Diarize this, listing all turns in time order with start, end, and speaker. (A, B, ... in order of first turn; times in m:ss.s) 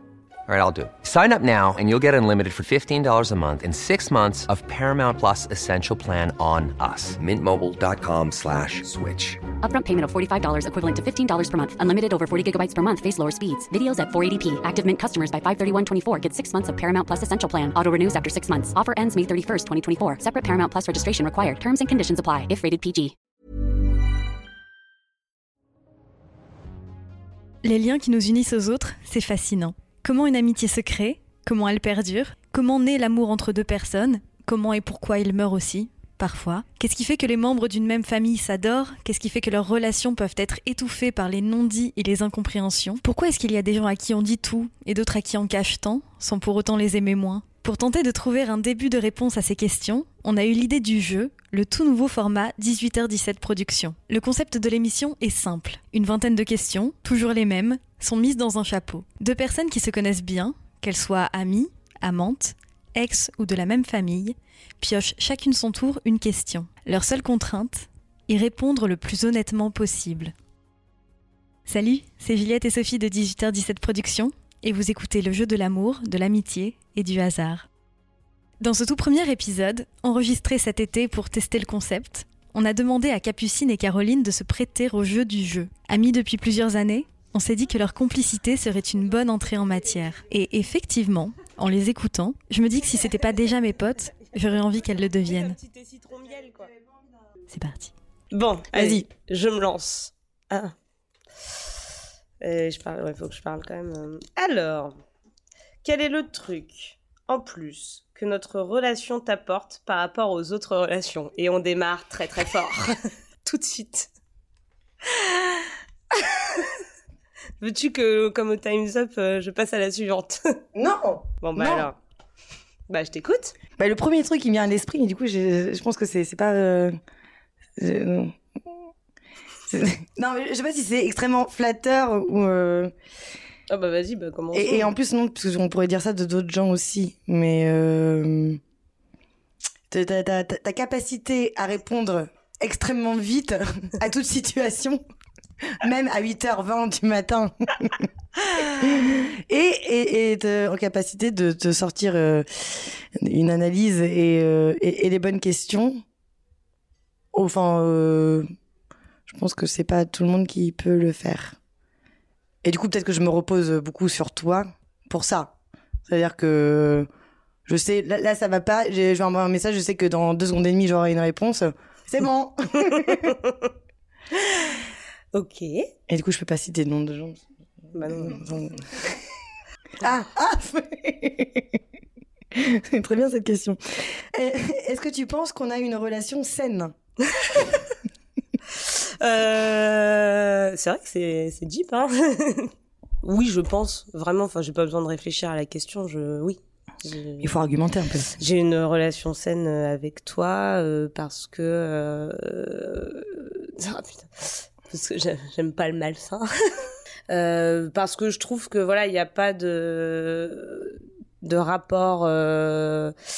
0:00.5-0:09.4 A
0:09.5-0:23.1 B
0:27.6-1:10.3 C
1:11.7-1:17.7 C
1:18.6-1:35.6 C
1:35.2-1:36.7 D
1:37.5-1:37.9 C
1:38.3-1:40.7 D
1:38.7-1:39.1 E
1:42.4-1:44.9 D
1:45.8-1:52.9 D
1:53.4-1:54.1 D
1:55.1-1:56.8 D
1:57.6-2:00.4 D
2:00.8-2:01.9 E
2:01.4-2:02.0 D
2:02.9-2:03.6 D
2:03.8-2:07.0 E
2:07.8-2:08.3 E
2:09.7-2:12.9 E
2:13.7-2:14.9 D
2:14.5-2:18.6 E
2:19.9-2:25.0 E
2:25.8-2:36.0 E
2:37.3-2:38.4 E
2:39.3-2:41.6 E
2:42.6-2:45.5 E
2:46.1-2:47.1 E
2:47.7-2:53.3 E
2:52.9-2:53.7 D
2:54.4-2:54.8 D
2:55.3-2:55.9 D
2:56.1-2:57.4 E
2:57.9-2:58.4 D
2:58.0-2:58.8 E
3:00.0-3:01.8 E
3:02.6-3:06.9 E
3:07.3-3:07.9 D
3:08.7-3:12.7 D
3:13.2-3:17.5 D
3:17.4-3:18.3 E
3:18.4-3:26.5 D
3:27.3-3:33.1 D